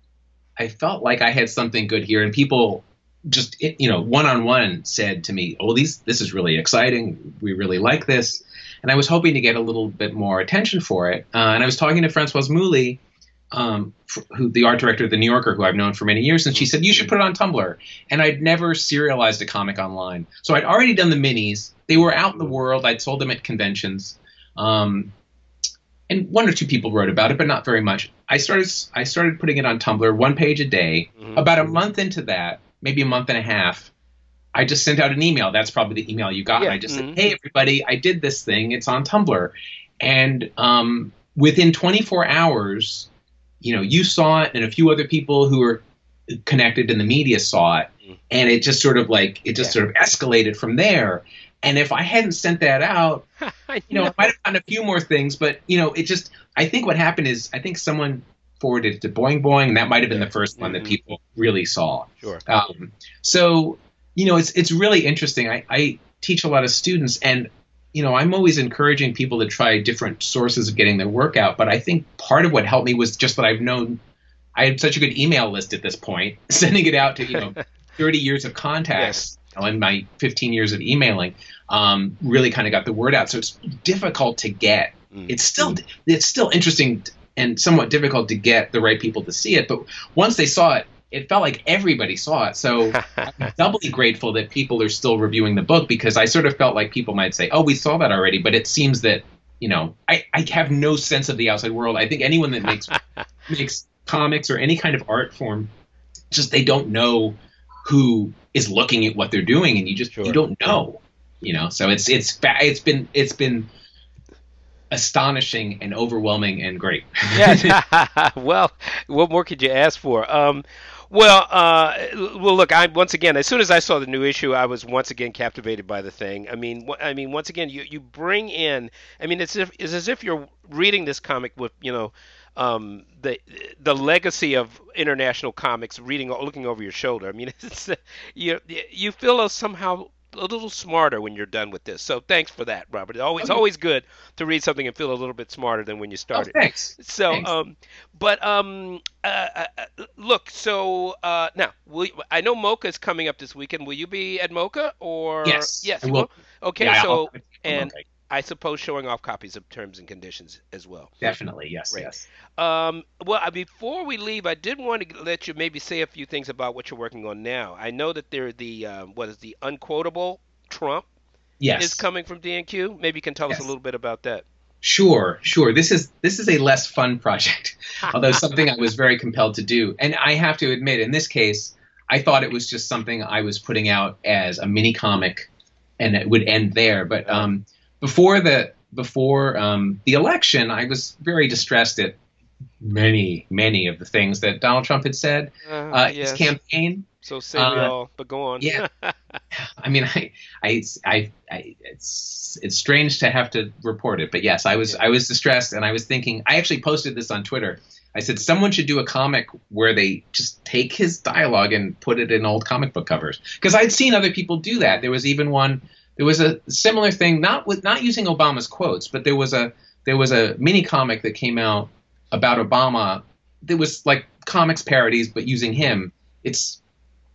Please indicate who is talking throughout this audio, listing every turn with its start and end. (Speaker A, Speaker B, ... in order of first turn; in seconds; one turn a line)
Speaker A: 0.6-13.0
Speaker A: 13.5-25.1
Speaker A: 26.1-33.9
Speaker B: 31.2-31.8
Speaker A: 34.5-43.1
Speaker B: 36.6-37.3
Speaker A: 43.6-53.2
Speaker B: 53.4-54.3
Speaker A: 53.9-74.0
Speaker B: 60.1-61.0
Speaker A: 74.6-105.7
Speaker B: 79.0-79.2
Speaker B: 85.1-85.8
Speaker B: 92.9-93.5
Speaker A: 106.3-113.7
Speaker B: 110.1-110.4
Speaker A: 114.9-117.8
Speaker B: 117.3-161.3
Speaker A: 146.3-147.5
Speaker A: 155.4-156.3
Speaker A: 156.8-158.0
Speaker A: 161.2-162.3
Speaker B: 161.9-171.1
Speaker A: 171.6-172.0
Speaker B: 171.8-174.4
Speaker A: 174.8-185.5
Speaker A: 186.0-192.2
Speaker A: 192.8-197.9
Speaker B: 195.7-196.5
Speaker B: 197.2-199.4
Speaker A: 198.6-198.8
Speaker A: 199.5-226.8